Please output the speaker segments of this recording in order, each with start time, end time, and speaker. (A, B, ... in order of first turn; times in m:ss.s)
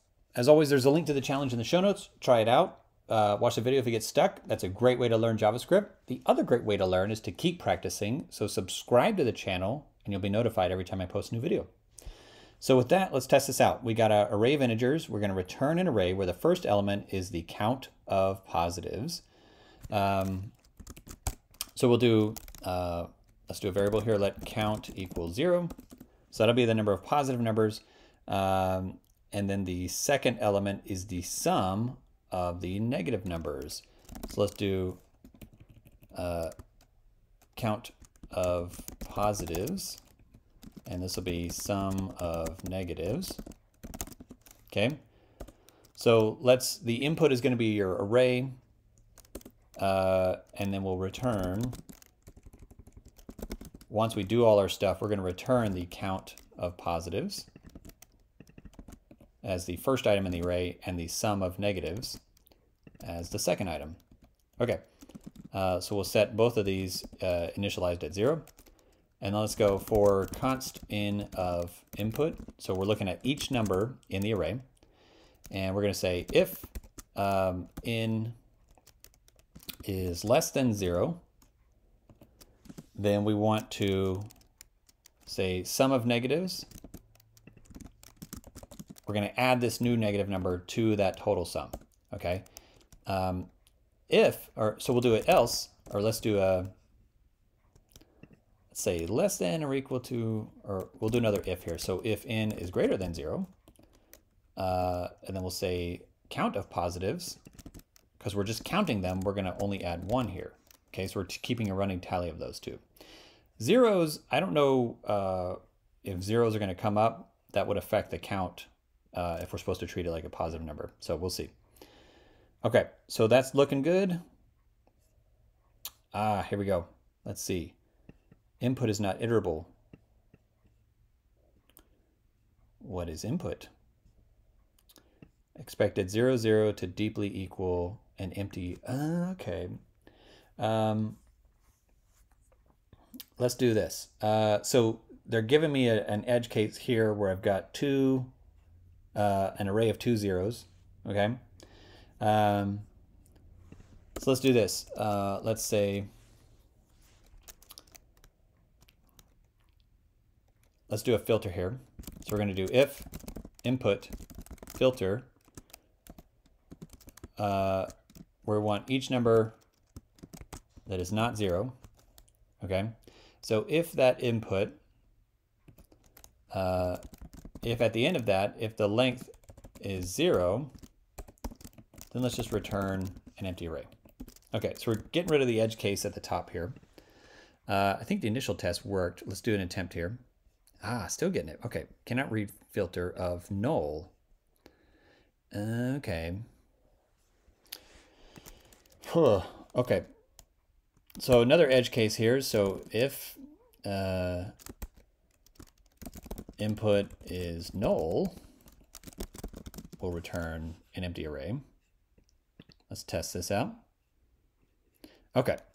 0:00.4-0:11.7 A
0:12.6-0:19.2 A
0:19.9-0:20.5 A
0:21.8-0:25.7 A
0:26.3-0:35.0 A
0:36.1-0:36.5 A
0:37.6-0:40.0 A
0:40.9-0:43.4 A
0:44.7-0:45.0 A
0:46.0-0:48.6 A
0:49.8-0:51.8 A
0:53.9-0:57.5 A
0:59.4-1:02.2 A
1:03.0-1:04.0 A
1:05.5-1:08.5 A
1:09.2-1:14.6 A
1:15.5-1:18.4 A
1:19.8-1:21.2 A
1:23.0-1:24.3 A
1:25.2-1:26.7 A
1:29.1-1:32.5 A
1:33.1-1:33.5 A
1:34.1-1:36.7 A
1:38.7-1:43.5 A
1:44.6-1:47.4 A
1:48.2-1:52.8 A
1:53.6-2:01.5 A
2:02.6-2:04.2 A
2:06.1-2:07.8 A
2:08.6-2:09.7 A
2:12.8-2:13.7 A
2:15.6-2:19.8 A
2:20.6-2:21.2 A
2:23.4-2:28.3 A
2:29.2-2:31.4 A
2:32.2-2:32.9 A
2:34.2-2:36.1 A
2:40.9-2:43.1 A
2:43.6-2:44.1 A
2:44.8-2:45.3 A
2:47.4-2:47.9 A
2:48.4-2:49.6 A
2:50.9-2:51.8 A
2:52.6-2:54.8 A
2:56.5-2:57.0 A
2:57.6-3:00.7 A
3:02.1-3:03.9 A
3:04.5-3:06.8 A
3:07.7-3:10.2 A
3:10.8-3:14.1 A
3:15.5-3:16.4 A
3:19.0-3:20.1 A
3:21.2-3:24.5 A
3:26.6-3:28.4 A
3:30.0-3:31.6 A
3:32.9-3:33.8 A